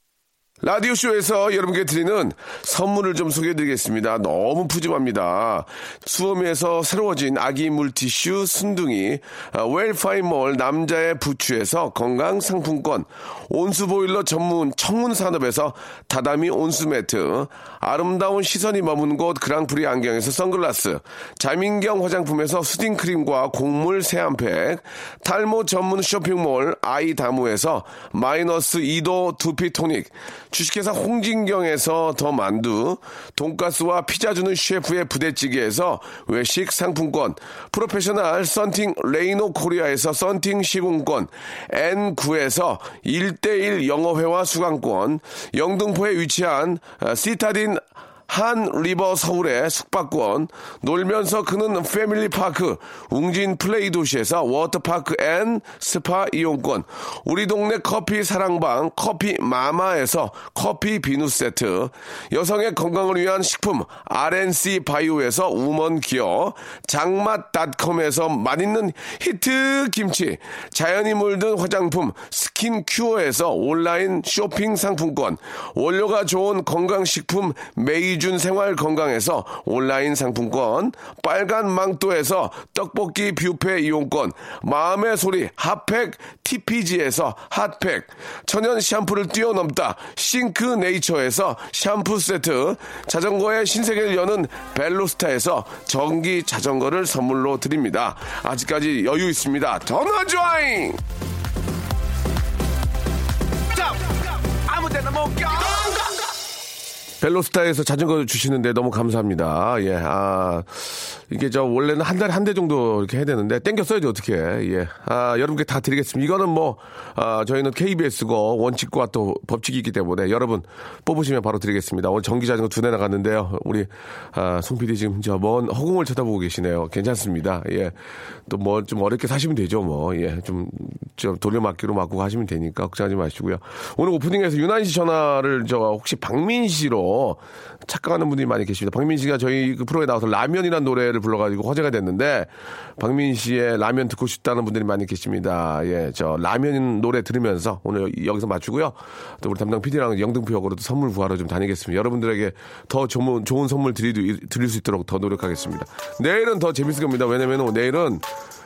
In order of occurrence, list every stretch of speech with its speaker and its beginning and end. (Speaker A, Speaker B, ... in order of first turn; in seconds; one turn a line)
Speaker A: 0.6-101.0
Speaker A: 103.7-106.0
Speaker A: 107.2-128.0
Speaker A: 128.5-158.2